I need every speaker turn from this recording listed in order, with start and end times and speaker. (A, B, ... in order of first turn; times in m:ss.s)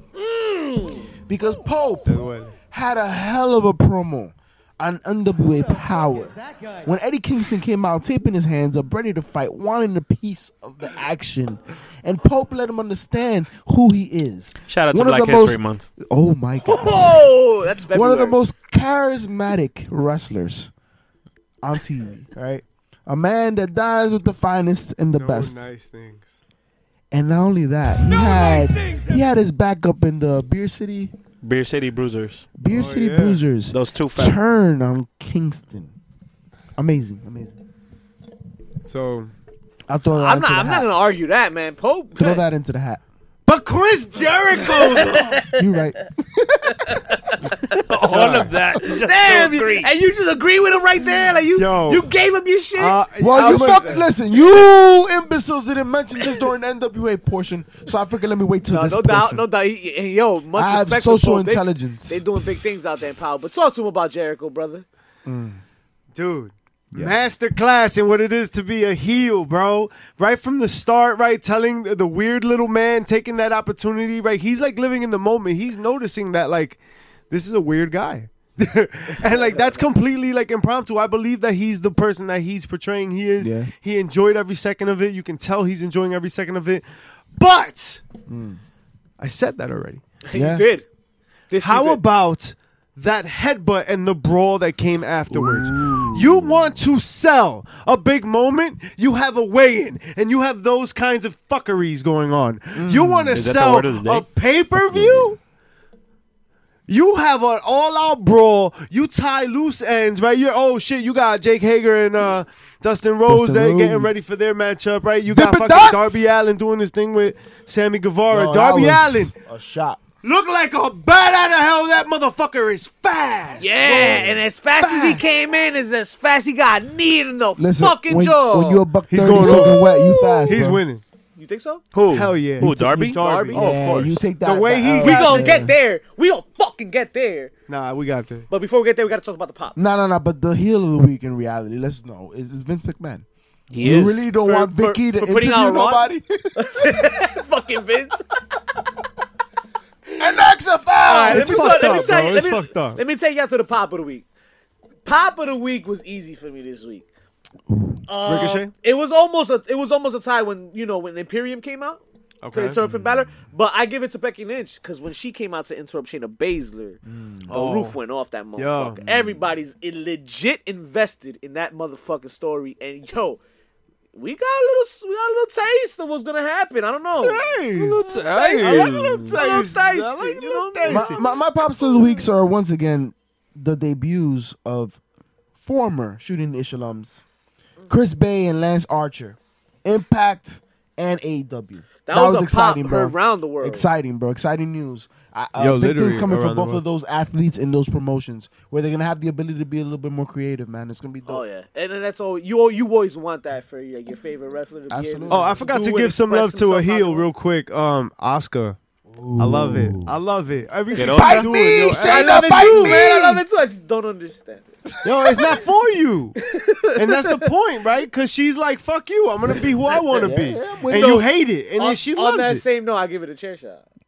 0:00.2-0:01.1 A
0:01.3-0:17.2 B
0:02.1-0:02.6 C
0:14.7-0:15.9 D
0:16.6-0:18.4 A
0:17.9-0:20.7 B
0:21.6-0:25.6 B
0:25.2-0:26.4 C
0:27.1-0:31.1 B
0:28.3-0:29.0 C
0:31.4-0:32.5 D
0:32.6-0:35.9 B
0:32.7-0:33.4 C
0:33.7-0:34.4 D
0:36.8-0:37.6 B
0:38.8-0:39.3 C
0:39.9-0:40.9 B
0:40.1-0:42.4 A
0:42.2-0:43.0 B
0:43.5-0:45.5 C
0:44.6-0:45.6 A
0:45.5-0:47.4 B
0:46.7-0:54.0 A
0:47.8-0:49.9 D
0:48.0-0:48.5 C
0:51.6-0:52.0 C
0:52.8-0:54.1 C
0:53.2-0:59.4 B
0:58.7-1:04.8 A
1:00.6-1:02.2 B
1:05.2-1:05.6 B
1:06.1-1:28.0 C
1:19.2-1:19.9 A
1:23.4-1:23.7 B
1:28.3-1:28.6 B
1:29.2-1:30.0 C
1:30.2-1:30.9 A
1:30.3-1:30.7 B
1:31.5-1:32.0 A
1:31.6-1:45.4 C
1:35.4-1:36.2 D
1:35.7-1:36.5 B
1:42.8-1:43.4 B
1:43.3-1:44.3 D
1:44.9-1:45.3 D
1:46.9-1:59.3 C
1:53.3-1:54.1 B
1:55.3-1:56.3 B
1:58.3-2:00.0 B
2:00.2-2:05.2 C
2:03.6-2:10.6 A
2:04.0-2:04.2 B
2:07.6-2:10.8 B
2:09.1-2:09.8 C
2:10.5-2:11.0 C
2:11.4-2:11.8 A
2:11.9-2:13.2 D
2:12.1-2:15.6 C
2:12.6-2:15.7 B
2:13.2-2:14.0 A
2:15.0-2:17.5 A
2:17.7-2:18.5 C
2:18.5-2:19.8 A
2:19.8-2:23.2 B
2:23.7-2:24.3 D
2:23.8-2:27.1 B
2:24.4-2:28.2 A
2:30.2-2:32.0 B
2:31.1-2:34.2 A
2:31.3-2:33.0 C
2:35.0-2:37.0 A
2:37.7-2:38.0 B
2:38.1-2:42.0 A
2:38.2-2:38.7 C
2:42.4-2:42.8 C
2:42.5-2:53.4 A
2:42.8-2:43.2 B
2:47.1-2:47.5 B
2:47.5-2:48.0 C
2:48.6-2:49.0 C
2:54.1-2:57.5 A
2:57.2-3:01.2 C
2:57.7-2:59.4 D
2:58.1-3:02.1 A
3:00.8-3:05.0 B
3:05.6-3:07.2 B
3:07.9-3:21.4 B
3:12.1-3:13.9 A
3:15.6-3:16.8 C
3:21.2-3:27.3 A
3:24.9-3:25.6 B
3:25.3-3:28.8 C
3:29.1-3:30.2 B
3:29.4-3:33.1 C
3:30.9-3:31.5 D
3:31.1-3:33.4 B
3:31.9-3:34.7 A
3:35.0-3:36.4 C
3:35.1-3:35.6 B
3:36.4-3:37.5 A
3:37.0-3:42.6 C
3:40.1-3:41.2 B
3:40.9-3:43.8 A